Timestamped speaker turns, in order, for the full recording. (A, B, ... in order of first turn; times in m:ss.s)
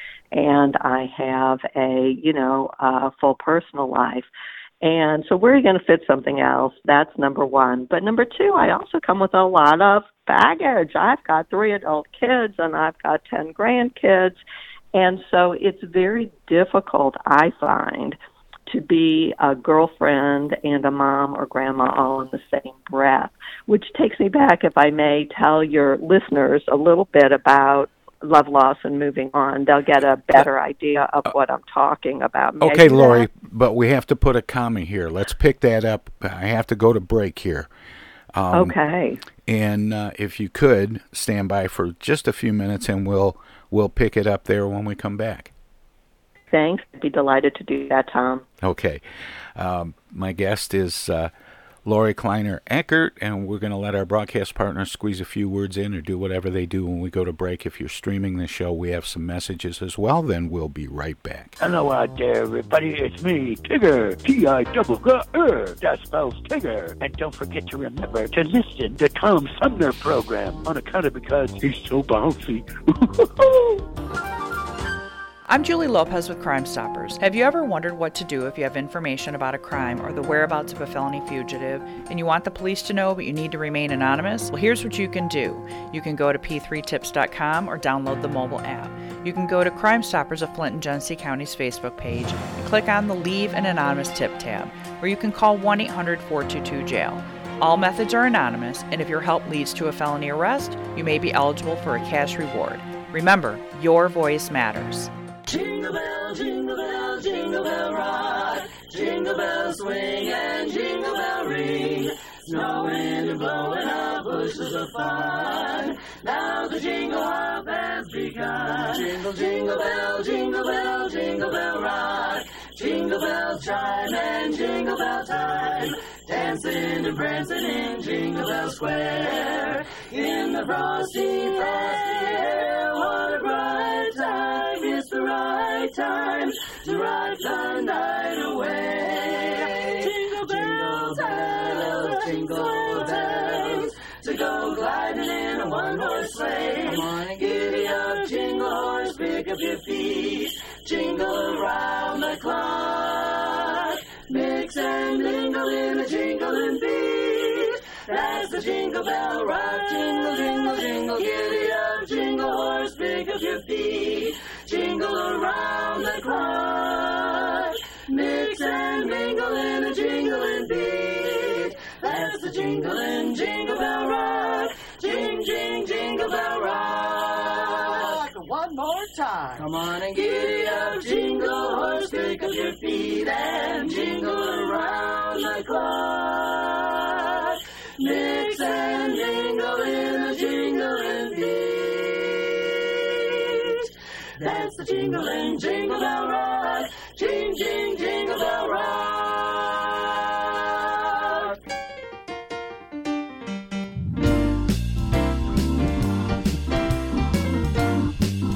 0:00.3-0:04.3 A
0:04.8-0:14.4 A
0:14.9-0:18.2 A
0:18.7-0:33.3 A
0:32.6-0:37.7 B
0:38.3-0:38.8 B
0:38.5-0:39.2 A
0:39.4-0:45.5 B
0:46.5-0:48.4 A
0:48.6-0:49.0 B
0:49.6-0:51.3 B
0:51.8-1:01.5 B
1:01.6-1:12.7 C
1:15.4-1:45.1 D
1:45.5-2:58.2 E
2:59.6-3:13.8 E
3:14.4-3:21.4 E